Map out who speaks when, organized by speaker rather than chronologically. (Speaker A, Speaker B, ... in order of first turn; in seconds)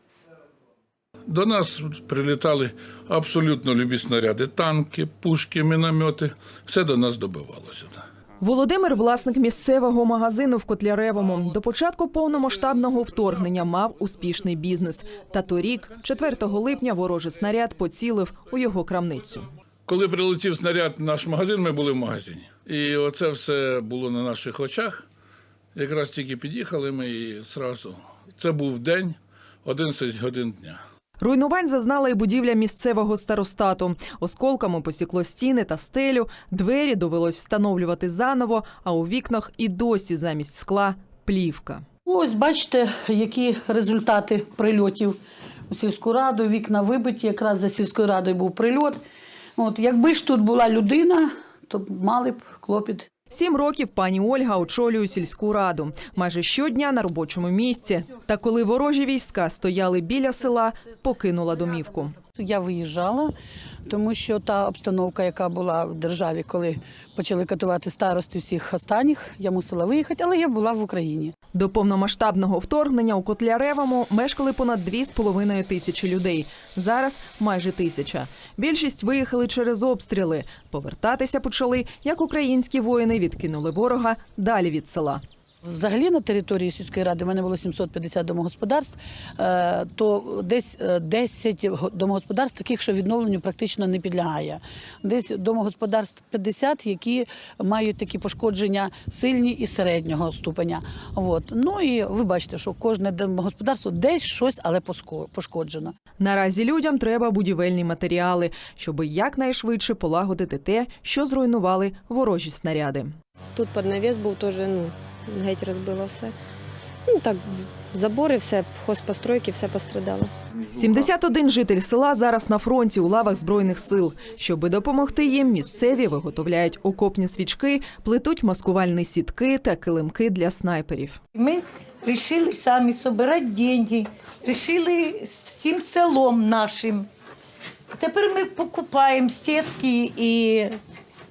Speaker A: 1.3-8.0, 19.9-25.0, 25.7-30.8
Speaker B: 8.4-19.5, 31.2-41.8, 53.3-62.1, 71.5-85.2, 106.2-113.1, 120.7-131.2
Speaker C: 42.0-45.2, 45.7-49.0, 49.6-53.1, 62.4-63.3, 63.9-71.3, 85.6-105.9
Speaker D: 113.5-116.3, 117.0-120.3
Speaker E: 131.3-137.1, 138.0-140.8